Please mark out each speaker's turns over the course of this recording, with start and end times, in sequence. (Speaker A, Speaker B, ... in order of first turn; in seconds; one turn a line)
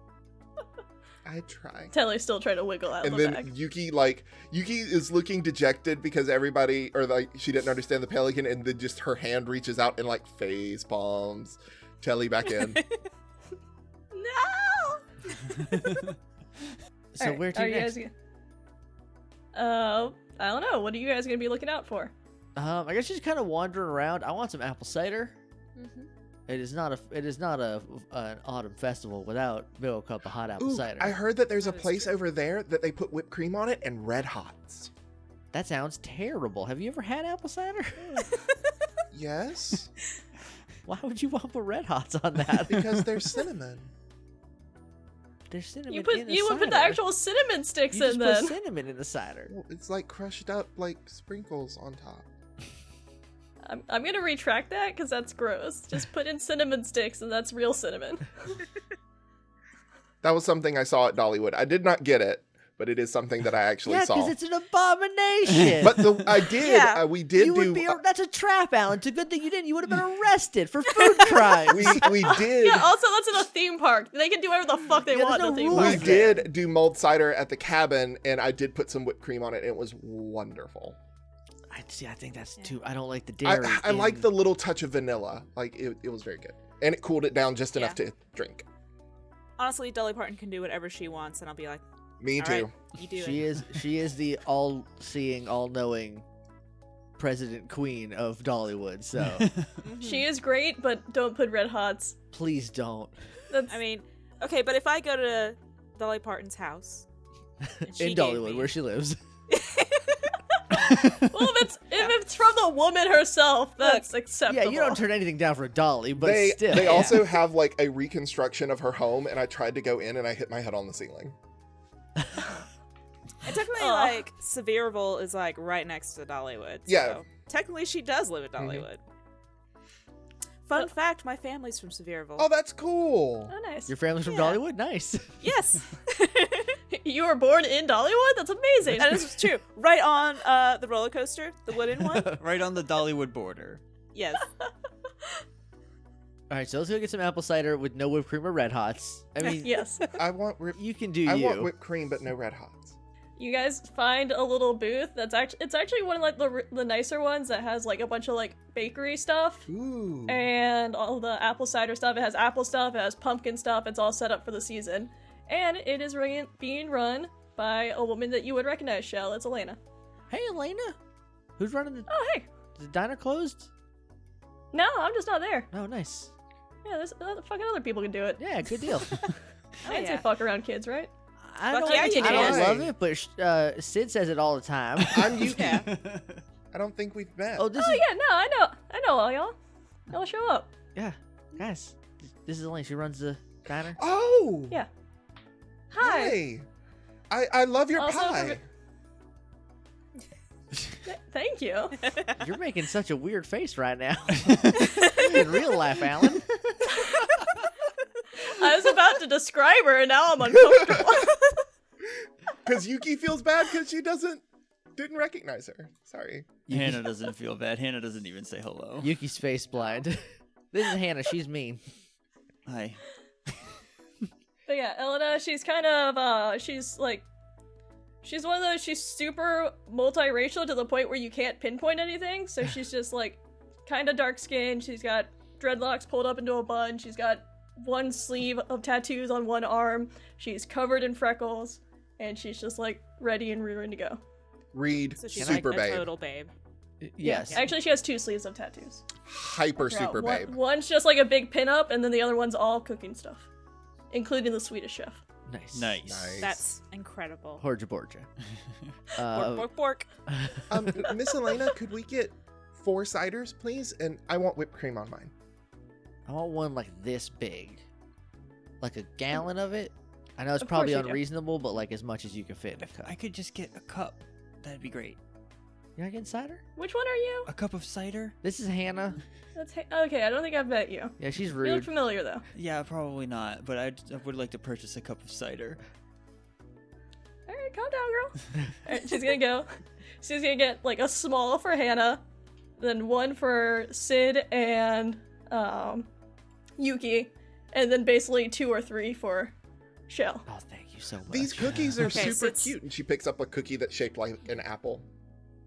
Speaker A: 1.2-1.9
Speaker B: 1.9-3.5
Speaker A: 3.0-12.8
Speaker C: 12.5-12.9
Speaker B: 14.1-15.0
Speaker D: 15.7-16.1
Speaker E: 17.1-18.0
Speaker B: 17.2-18.1
Speaker B: 19.5-22.1
Speaker E: 22.6-25.4
Speaker E: 26.5-31.2
Speaker A: 30.6-34.9
Speaker C: 31.6-32.2
Speaker E: 35.5-38.3
Speaker A: 39.1-39.9
Speaker E: 40.9-43.1
Speaker A: 42.7-43.9
Speaker E: 45.5-47.1
Speaker B: 45.9-48.6
Speaker E: 47.9-49.5
Speaker A: 49.5-52.3
Speaker B: 53.6-58.3
Speaker A: 60.2-64.3
Speaker E: 63.9-66.2
Speaker A: 65.8-68.0
Speaker C: 66.6-67.1
Speaker E: 67.3-72.1
Speaker C: 71.0-71.8
Speaker A: 71.6-72.9
Speaker B: 72.3-76.2
Speaker E: 75.1-76.5
Speaker A: 75.7-81.0
Speaker E: 81.7-84.3
Speaker A: 83.4-88.7
Speaker C: 89.6-91.8
Speaker A: 92.2-92.7
Speaker C: 92.4-93.5
Speaker E: 93.2-96.2
Speaker E: 97.2-99.5
Speaker D: 99.3-99.7
Speaker C: 99.8-100.3
Speaker B: 100.0-102.2
Speaker E: 102.3-103.2
Speaker B: 103.5-103.8
Speaker C: 103.7-107.1
Speaker E: 107.6-109.2
Speaker C: 107.8-108.7
Speaker C: 109.5-110.3
Speaker D: 110.9-111.4
Speaker B: 111.2-115.0
Speaker C: 113.8-114.0
Speaker E: 114.5-117.3
Speaker A: 116.2-121.3
Speaker C: 116.7-117.3
Speaker C: 123.4-129.0
Speaker B: 123.8-124.2
Speaker A: 126.9-127.2
Speaker C: 130.7-132.5
Speaker A: 132.4-133.5
Speaker B: 133.5-133.9
Speaker E: 133.9-135.4
Speaker C: 134.3-134.6
Speaker C: 135.4-136.8
Speaker B: 136.9-139.3
Speaker C: 139.0-142.4
Speaker E: 142.1-142.4
Speaker D: 142.3-143.8
Speaker C: 144.1-144.5
Speaker E: 146.5-149.8
Speaker C: 149.4-150.1
Speaker B: 149.6-150.1
Speaker A: 150.2-153.0
Speaker E: 150.8-151.7
Speaker B: 153.4-159.7
Speaker A: 159.7-160.5
Speaker B: 160.3-169.8
Speaker E: 170.3-171.0
Speaker E: 171.6-172.1
Speaker B: 172.1-172.5
Speaker E: 172.8-173.7
Speaker B: 174.7-175.7
Speaker E: 175.7-176.3
Speaker B: 176.8-178.4
Speaker E: 178.4-179.2
Speaker C: 179.8-180.3
Speaker B: 179.8-181.1
Speaker E: 181.4-185.5
Speaker C: 181.7-182.8
Speaker B: 181.8-182.7
Speaker A: 182.1-182.9
Speaker A: 185.1-185.9
Speaker C: 185.4-185.9
Speaker D: 185.7-186.4
Speaker A: 186.7-187.7
Speaker E: 187.6-188.1
Speaker B: 187.8-189.6
Speaker B: 190.1-190.7
Speaker E: 190.9-194.0
Speaker A: 194.0-194.8
Speaker B: 195.9-196.4
Speaker A: 196.0-196.7
Speaker A: 197.3-198.6
Speaker B: 198.0-198.6
Speaker B: 201.1-202.0
Speaker C: 202.1-202.3
Speaker E: 202.4-206.5
Speaker D: 204.4-205.2
Speaker C: 204.8-205.4
Speaker B: 206.9-207.2
Speaker B: 208.4-211.6
Speaker A: 212.6-214.4
Speaker A: 215.0-216.6
Speaker E: 216.7-217.0
Speaker D: 216.7-219.1
Speaker E: 219.0-220.2
Speaker E: 220.7-221.8
Speaker D: 222.7-223.0
Speaker B: 224.7-227.3
Speaker B: 228.2-244.2
Speaker A: 244.7-246.1
Speaker C: 245.2-246.5
Speaker E: 245.4-245.7
Speaker E: 247.0-247.6
Speaker B: 247.2-249.0
Speaker C: 247.4-247.7
Speaker A: 249.3-250.6
Speaker B: 249.9-253.5
Speaker B: 254.1-255.2
Speaker E: 255.5-256.1
Speaker D: 255.7-256.4
Speaker A: 256.1-256.6
Speaker C: 256.4-257.6
Speaker E: 257.6-258.3
Speaker C: 259.2-260.1
Speaker E: 259.2-259.7
Speaker E: 260.3-261.1
Speaker A: 260.7-265.3
Speaker E: 266.3-267.8
Speaker E: 268.8-273.1
Speaker B: 270.6-271.2
Speaker D: 273.0-275.2
Speaker E: 276.0-276.6
Speaker B: 276.8-277.5
Speaker D: 277.5-278.4
Speaker E: 278.4-279.2
Speaker B: 279.6-282.4
Speaker E: 281.2-281.9
Speaker D: 282.5-285.8
Speaker B: 287.5-289.7
Speaker B: 290.2-292.2
Speaker B: 292.8-296.1
Speaker B: 296.8-299.5
Speaker B: 300.1-300.5
Speaker E: 300.5-302.3
Speaker A: 301.3-305.1
Speaker C: 302.0-302.7